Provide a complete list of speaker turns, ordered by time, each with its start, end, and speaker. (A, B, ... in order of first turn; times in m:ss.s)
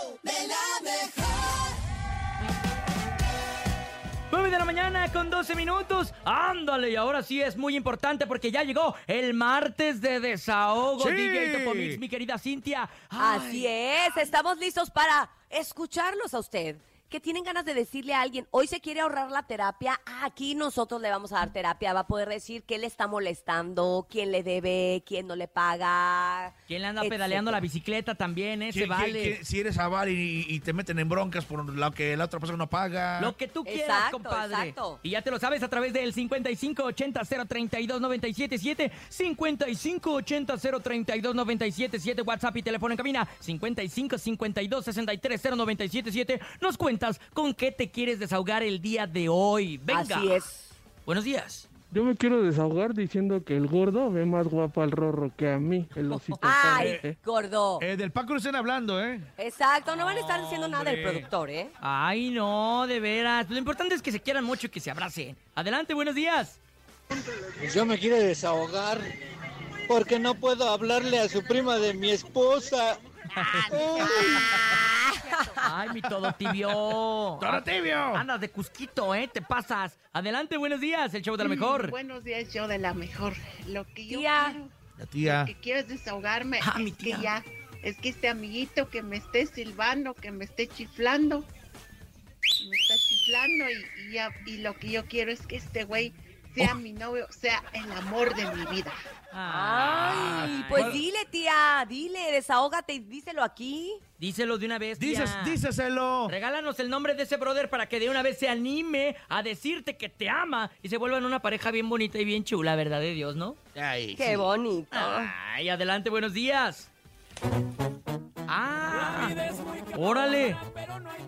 0:04.3-0:13.7 A
0:11.0-0:12.0 B
0:13.2-0:27.6 C
0:26.7-0:29.4 A
0:28.7-0:33.3 B
0:33.2-0:50.4 A
0:33.6-0:35.0 C
0:49.9-0:50.6 C
0:51.0-0:51.6 A
0:51.9-0:57.1 D
0:56.1-0:56.8 A
0:56.4-0:57.8 C
0:57.8-0:59.2 B
0:59.4-1:01.7 C
1:00.4-1:00.7 A
1:00.7-1:01.2 B
1:01.8-1:06.6 A
1:07.6-1:09.0 E
1:09.9-1:13.0 E
1:13.3-1:13.7 A
1:13.4-1:14.8 F
1:13.7-1:14.5 E
1:14.4-1:15.5 C
1:15.6-1:22.0 A
1:17.4-1:18.2 B
1:21.4-1:31.5 F
1:24.1-1:24.5 C
1:25.0-1:25.5 B
1:26.6-1:27.3 A
1:32.6-1:39.0 F
1:39.3-1:41.0 A
1:39.5-1:44.0 C
1:44.2-1:45.6 A
1:45.0-1:46.3 B
1:46.3-1:53.6 A
1:53.7-1:54.5 B
1:54.2-1:55.3 C
1:54.9-1:56.9 A
1:58.5-2:00.6 A